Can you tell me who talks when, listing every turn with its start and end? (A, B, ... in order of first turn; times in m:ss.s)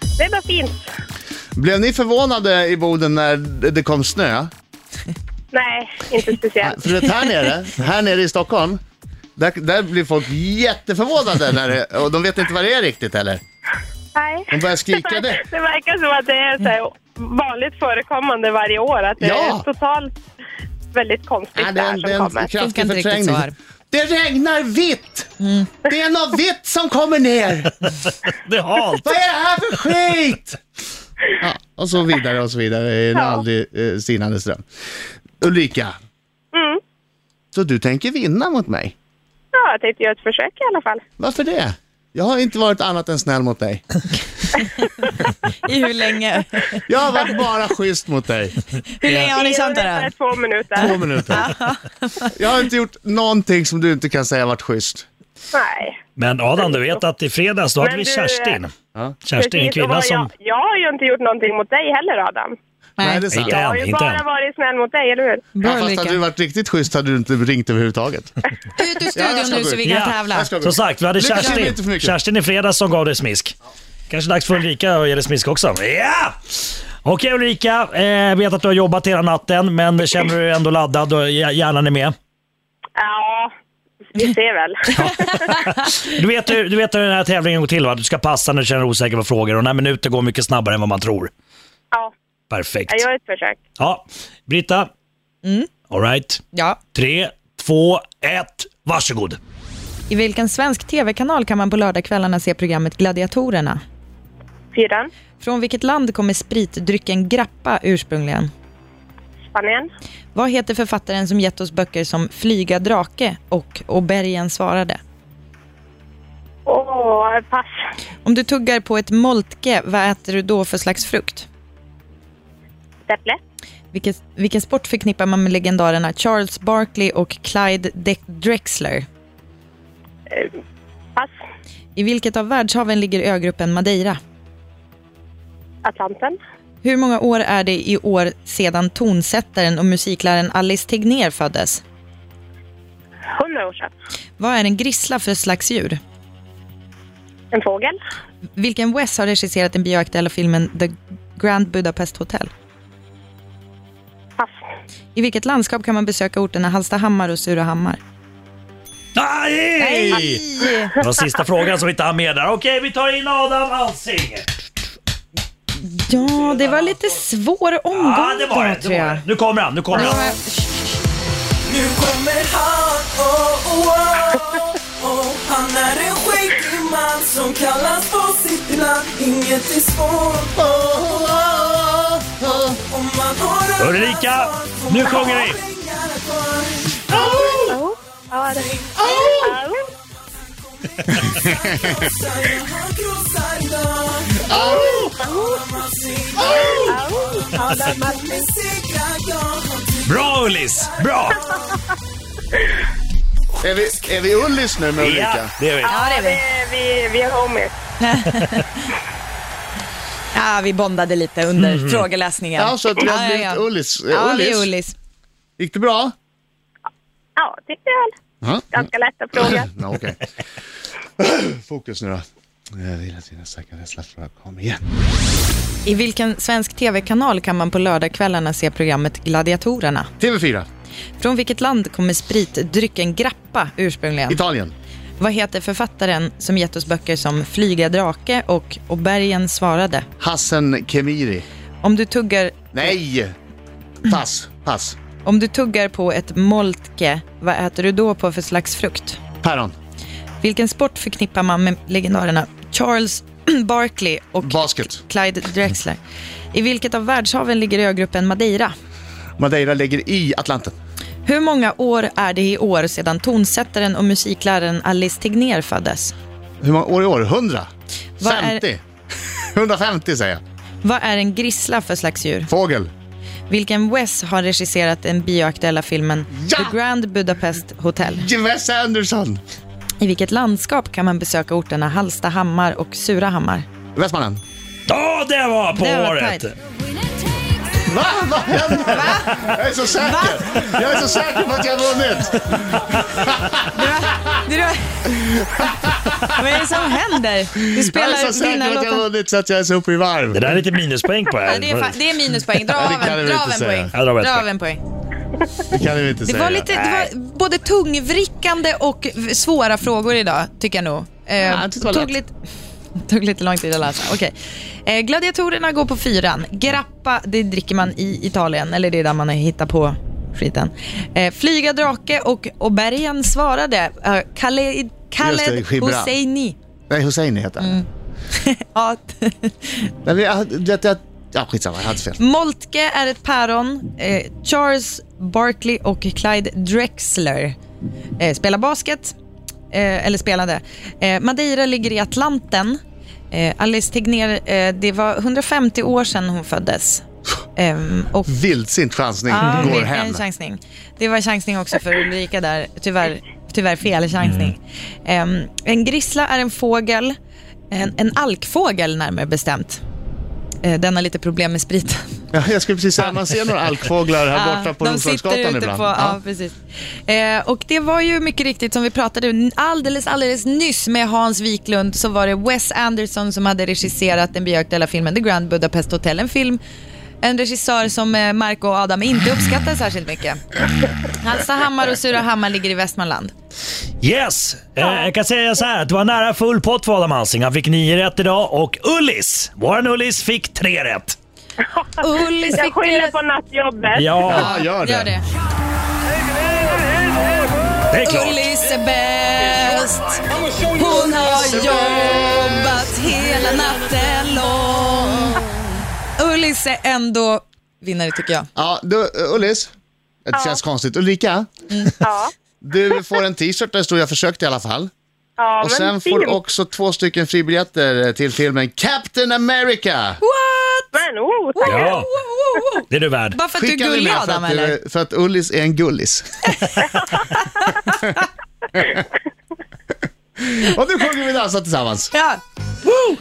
0:00.2-0:00.8 A
0:01.5-0:04.5 B
0:05.5-0:06.8 A
0:06.6-0:08.8 B
0:09.4-0:13.4 B
0:14.1-0:20.1 A
0:14.5-0:15.4 B
0:19.2-0:19.6 B
0:20.9-0:22.5 A
0:21.6-0:25.3 B
0:22.6-0:23.5 C
0:25.4-0:25.7 C
0:25.8-0:27.8 B
0:28.0-0:29.1 D
0:29.0-0:30.6 B
0:31.4-0:34.6 B
0:33.1-0:33.4 A
0:35.4-0:35.9 B
0:36.5-0:36.8 A
0:37.5-0:38.9 B
0:39.5-0:41.0 A
0:41.2-0:44.0 B
0:44.5-0:45.1 C
0:45.6-0:46.8 C
0:46.9-0:48.6 B
0:48.9-0:50.1 C
0:49.2-0:51.0 A
0:50.8-0:51.5 B
0:50.8-0:52.3 C
0:52.4-0:55.1 B
0:55.5-0:56.0 A
0:56.2-0:58.7 D
0:56.6-0:57.0 A
0:57.8-0:58.6 A
0:59.2-1:00.3 D
0:59.3-1:02.6 A
1:03.0-1:03.3 C
1:03.0-1:03.6 B
1:03.3-1:04.2 D
1:03.4-1:05.5 A
1:05.6-1:06.2 C
1:05.6-1:08.4 B
1:08.8-1:10.5 C
1:09.2-1:12.2 B
1:09.8-1:13.5 D
1:11.4-1:11.7 C
1:14.1-1:22.2 D
1:23.0-1:23.5 A
1:24.1-1:25.5 A
1:24.9-1:31.3 D
1:32.5-1:33.0 D
1:32.9-1:33.6 A
1:33.8-1:34.9 D
1:35.4-1:35.7 C
1:35.9-1:36.4 D
1:36.5-1:36.8 C
1:36.9-1:39.4 D
1:40.1-1:43.8 C
1:44.7-1:45.1 A
1:45.4-1:48.5 C
1:49.5-1:49.9 A
1:50.3-1:55.0 C
1:56.7-1:57.8 A
1:58.2-2:01.5 C
2:03.1-2:03.4 A
2:03.9-2:09.0 C
2:10.3-2:10.5 A
2:12.0-2:14.2 C
2:15.8-2:16.4 A
2:16.8-2:21.8 C
2:23.3-2:23.9 A
2:24.4-2:26.0 C
2:27.5-2:28.0 A
2:28.6-2:32.5 C
2:35.1-2:38.0 C
2:39.1-2:40.4 D
2:39.8-2:40.9 C
2:41.0-2:44.4 D
2:45.8-2:49.2 C
2:47.9-2:50.2 D
2:49.9-2:50.7 C
2:51.6-3:01.7 E
3:00.5-3:02.8 B
3:02.4-3:07.8 E
3:03.8-3:05.6 D
3:07.1-3:07.8 B
3:07.6-3:08.7 A
3:08.5-3:09.5 E
3:09.0-3:09.6 B
3:09.3-3:09.8 A
3:10.3-3:21.8 E
3:11.1-3:12.0 B
3:14.4-3:15.2 B
3:14.5-3:15.6 A
3:16.4-3:17.0 B
3:16.8-3:18.4 A
3:20.0-3:21.4 D
3:23.6-3:25.5 B
3:25.0-3:26.0 D
3:25.8-3:27.7 A
3:25.8-3:26.4 C
3:28.0-3:28.9 C
3:30.3-3:34.9 C
3:31.6-3:32.0 D
3:32.6-3:34.7 B
3:35.6-3:36.1 B
3:37.4-3:38.1 A
3:38.4-3:38.8 B
3:38.7-3:39.8 A
3:39.5-3:40.2 B
3:41.2-3:44.8 B
3:45.8-3:50.1 C
3:50.2-3:50.7 B
3:51.2-3:54.4 C
3:54.3-3:54.7 B
3:55.2-4:00.0 C
4:00.2-4:01.4 B
4:01.8-4:02.7 C
4:02.7-4:03.3 B
4:04.0-4:05.0 B
4:05.2-4:09.2 C
4:09.4-4:09.7 B
4:10.4-4:16.0 C
4:14.4-4:15.0 B
4:16.5-4:18.7 C
4:19.4-4:20.8 B
4:21.2-4:26.1 C
4:26.6-4:27.7 B
4:28.2-4:28.6 C
4:28.2-4:28.8 B
4:29.4-4:30.4 B
4:30.8-4:32.5 C
4:32.5-4:32.9 B
4:33.5-4:38.2 C
4:36.4-4:36.8 B
4:38.2-4:39.4 B
4:40.0-4:43.7 C
4:43.9-4:44.4 B
4:44.9-4:46.5 D
4:45.7-4:46.5 C
4:47.8-4:53.6 B
4:48.8-4:49.4 C
4:50.0-4:50.6 C
4:53.7-4:55.6 C
4:55.6-4:56.2 B
4:56.2-4:59.0 C
4:57.7-5:00.6 B
5:00.3-5:02.0 D
5:01.4-5:04.8 C
5:02.7-5:03.9 B
5:03.9-5:04.5 D
5:05.7-5:06.7 B
5:06.2-5:12.3 C
5:06.7-5:07.1 D
5:11.4-5:12.2 B
5:13.1-5:14.3 C
5:14.8-5:26.6 C
5:25.2-5:26.1 B
5:26.9-5:27.8 B
5:27.6-5:29.9 C
5:30.0-5:32.2 B
5:32.2-5:37.6 C
5:38.2-5:39.2 C
5:39.7-5:42.8 C
5:43.3-5:47.0 C
5:47.6-5:48.3 C
5:48.3-5:50.2 B
5:49.3-5:57.2 C
5:54.2-5:54.5 D
5:57.7-5:59.8 C
6:00.6-6:02.0 C
6:02.3-6:06.2 B
6:04.3-6:06.6 C
6:07.1-6:16.6 C
6:17.2-6:20.4 C
6:21.2-6:23.3 C
6:24.0-6:31.2 D
6:32.0-6:33.2 C
6:32.5-6:34.1 A
6:33.9-6:34.5 D
6:34.2-6:35.1 B
6:34.3-6:35.2 C
6:37.9-6:38.5 D
6:38.0-6:45.4 C
6:46.2-6:48.5 C
6:48.6-6:49.7 B
6:50.2-6:51.5 B
6:50.3-6:50.6 A
6:52.0-6:52.3 A
6:52.6-6:54.9 B
6:55.4-6:56.4 A
6:55.6-7:00.2 B
7:00.2-7:00.9 C
7:00.9-7:02.0 A
7:01.6-7:04.8 C
7:01.7-7:02.1 D
7:02.9-7:03.4 D
7:03.6-7:06.2 B
7:06.6-7:08.2 C
7:06.8-7:07.1 A
7:10.4-7:12.1 B
7:12.1-7:12.4 C